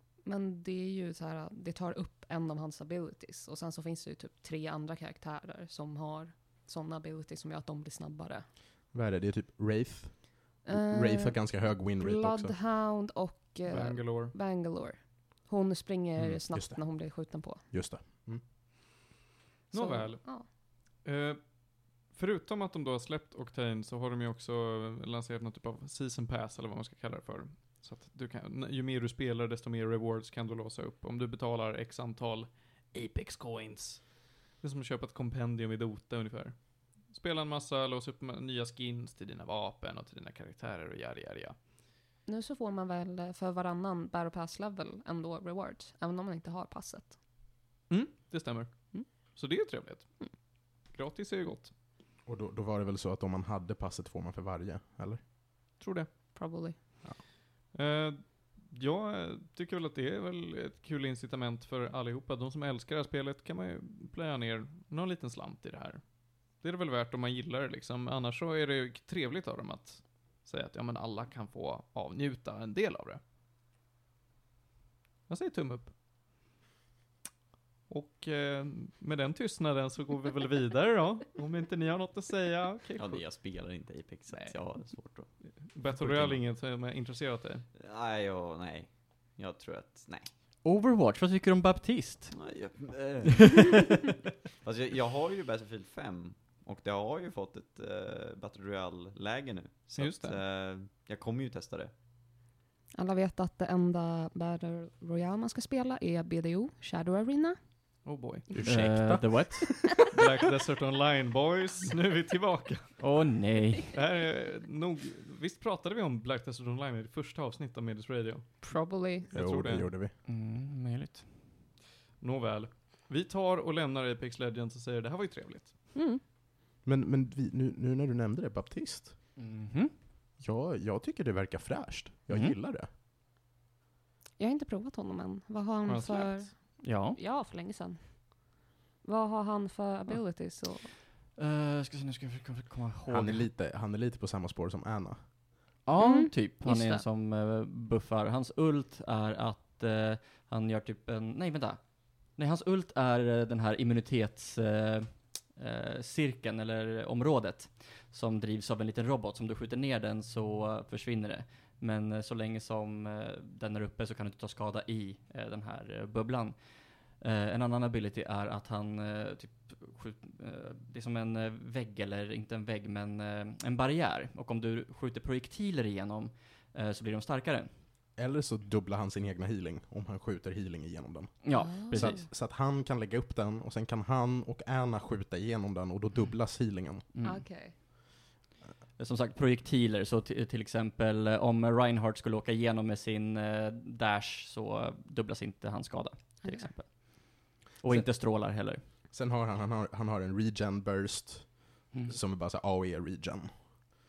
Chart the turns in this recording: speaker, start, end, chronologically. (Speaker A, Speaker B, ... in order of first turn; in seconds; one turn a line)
Speaker A: 0.2-8.5
Speaker B: 8.9-12.6
Speaker A: 10.7-17.6
Speaker C: 13.7-14.3
Speaker B: 16.2-16.9
Speaker B: 17.7-18.4
Speaker C: 19.7-20.5
Speaker A: 19.7-20.5
Speaker C: 21.0-41.6
Speaker A: 42.3-47.1
Speaker C: 47.9-50.1
Speaker C: 50.9-51.7
Speaker B: 52.3-55.2
Speaker C: 55.8-56.1
Speaker A: 56.4-56.8
Speaker C: 57.7-66.0
Speaker C: 66.6-73.2
Speaker C: 75.3-75.9
Speaker C: 77.9-83.2
Speaker D: 83.0-85.3
Speaker C: 84.3-84.8
Speaker C: 85.7-87.7
Speaker D: 85.9-86.4
Speaker D: 87.8-90.3
Speaker E: 90.6-92.4
Speaker D: 92.3-93.8
Speaker E: 93.3-94.1
Speaker D: 94.6-101.9
Speaker C: 100.0-100.4
Speaker A: 103.0-107.6
Speaker C: 108.0-108.5
Speaker B: 108.5-110.0
Speaker E: 108.6-109.9
Speaker C: 110.1-113.0
Speaker E: 113.0-114.0
Speaker C: 113.9-118.7
Speaker A: 118.6-119.3
Speaker C: 119.3-119.9
Speaker B: 119.3-120.2
Speaker E: 120.2-121.3
Speaker C: 122.2-125.7
Speaker A: 125.9-126.2
Speaker B: 126.8-129.2
Speaker E: 129.4-129.9
Speaker B: 130.4-132.9
Speaker E: 132.3-132.6
Speaker A: 134.4-138.5
Speaker C: 135.8-136.5
Speaker E: 136.8-137.2
Speaker A: 139.0-140.9
Speaker E: 141.4-143.5
Speaker B: 143.1-145.3
Speaker E: 145.9-166.6
Speaker A: 146.0-147.0
Speaker E: 167.2-177.7
Speaker B: 178.2-187.1
Speaker E: 181.4-182.2
Speaker A: 181.5-182.3
Speaker E: 187.1-187.4
Speaker A: 187.2-187.8
Speaker E: 189.0-198.8
Speaker A: 196.4-196.7
Speaker B: 199.1-203.8